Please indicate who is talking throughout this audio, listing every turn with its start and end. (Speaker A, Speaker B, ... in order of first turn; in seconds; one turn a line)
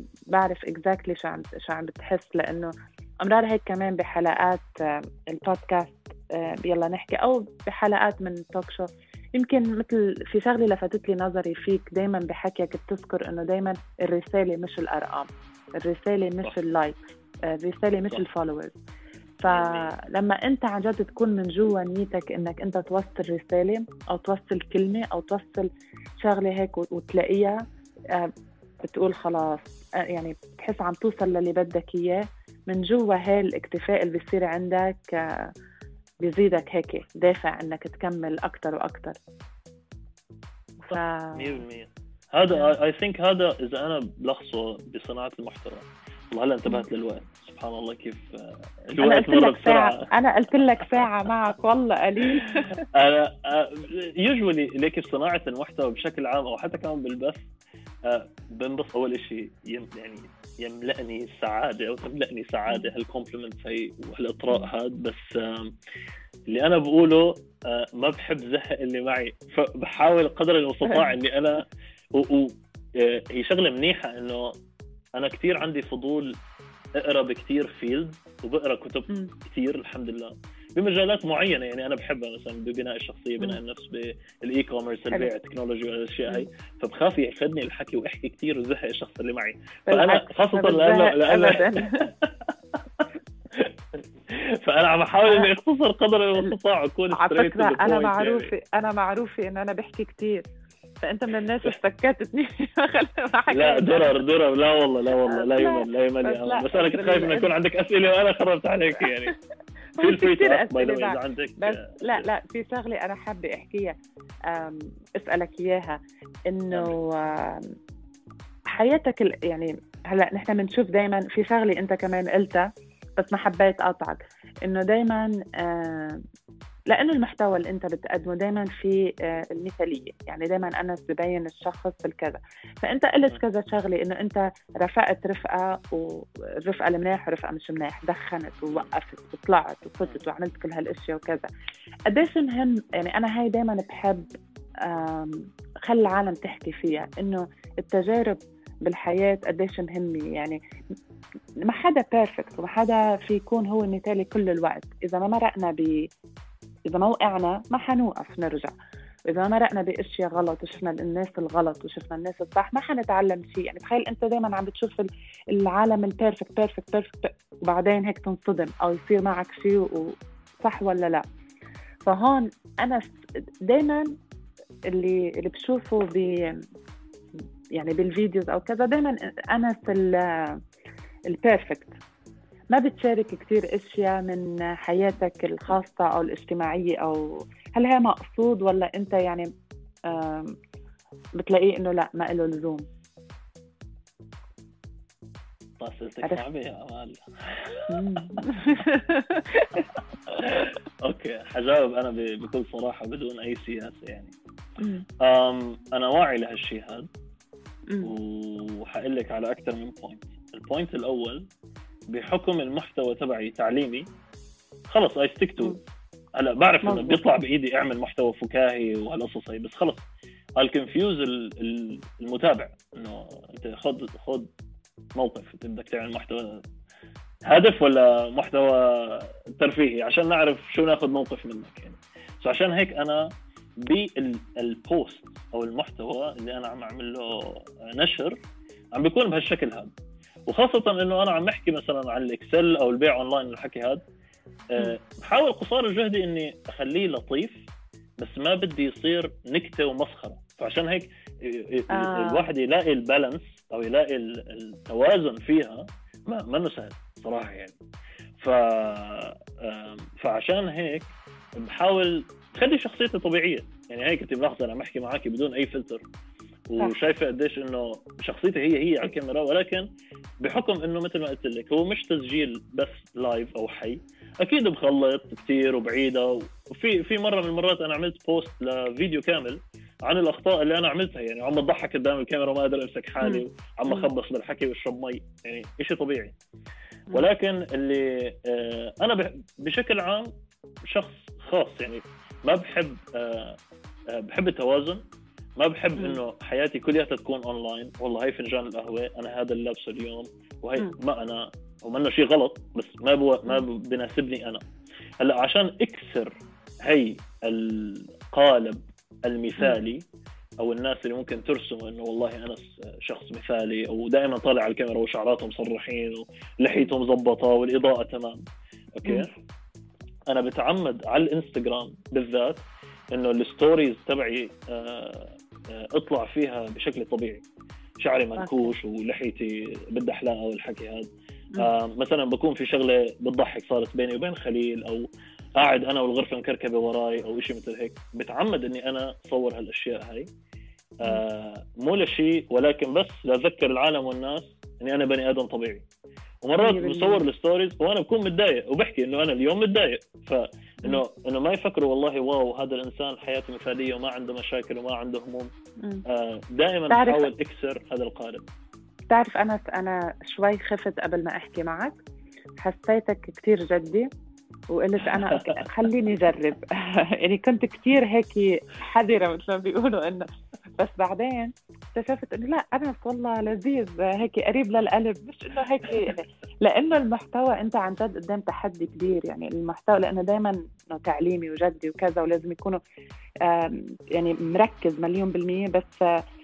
Speaker A: 0.3-18.8
Speaker A: 19.4-25.7
Speaker B: 19.4-19.9
Speaker A: 26.2-27.6
Speaker A: 28.8-35.5
Speaker A: 36.2-39.1
Speaker B: 40.9-50.1
Speaker A: 40.9-41.6
Speaker A: 49.0-52.8
Speaker B: 50.8-51.1
Speaker B: 52.9-57.4
Speaker B: 58.0-65.7
Speaker B: 66.5-74.5
Speaker B: 75.1-76.3
Speaker B: 77.0-98.5
Speaker A: 89.9-92.1
Speaker A: 97.1-100.5
Speaker A: 101.0-104.2
Speaker B: 103.5-109.3
Speaker A: 105.3-107.5
Speaker B: 110.0-112.3
Speaker A: 110.0-113.9
Speaker A: 114.5-116.0
Speaker A: 116.5-117.7
Speaker B: 116.7-117.0
Speaker A: 118.7-122.7
Speaker A: 123.2-126.2
Speaker A: 126.9-141.5
Speaker A: 142.1-144.3
Speaker A: 144.8-150.6
Speaker A: 151.7-156.1
Speaker A: 156.9-158.7
Speaker A: 159.3-171.2
Speaker A: 172.0-173.1
Speaker A: 173.6-174.1
Speaker A: 174.9-176.6
Speaker A: 177.7-180.6
Speaker A: 181.3-181.9
Speaker A: 182.7-189.5
Speaker A: 190.1-190.6
Speaker A: 191.4-192.8
Speaker B: 195.8-198.6
Speaker A: 197.9-199.8
Speaker B: 200.3-204.3
Speaker A: 204.8-205.1
Speaker B: 205.2-207.1
Speaker B: 208.0-211.5
Speaker B: 212.1-214.1
Speaker B: 214.9-215.8
Speaker B: 216.3-220.0
Speaker A: 216.8-217.2
Speaker B: 220.6-224.5
Speaker B: 225.2-226.6
Speaker B: 227.4-238.4
Speaker B: 238.9-239.9
Speaker B: 240.4-244.0
Speaker B: 244.7-247.6
Speaker B: 248.2-257.8
Speaker A: 251.9-252.5
Speaker B: 258.4-266.0
Speaker B: 266.7-269.9
Speaker B: 270.4-286.3
Speaker A: 283.2-284.1
Speaker B: 287.1-290.3
Speaker B: 290.8-293.6
Speaker B: 294.1-295.0
Speaker B: 295.6-304.6
Speaker B: 305.2-310.0
Speaker B: 310.6-318.4
Speaker B: 318.9-319.3
Speaker A: 319.0-319.3
Speaker B: 320.3-327.4
Speaker B: 328.0-340.3
Speaker A: 328.4-328.7
Speaker B: 341.0-345.8
Speaker B: 346.4-355.5
Speaker A: 346.6-347.2
Speaker B: 356.1-358.5
Speaker A: 356.9-357.3
Speaker A: 359.1-362.0
Speaker A: 362.6-364.1
Speaker A: 364.7-382.8
Speaker B: 365.0-365.6
Speaker A: 383.4-386.0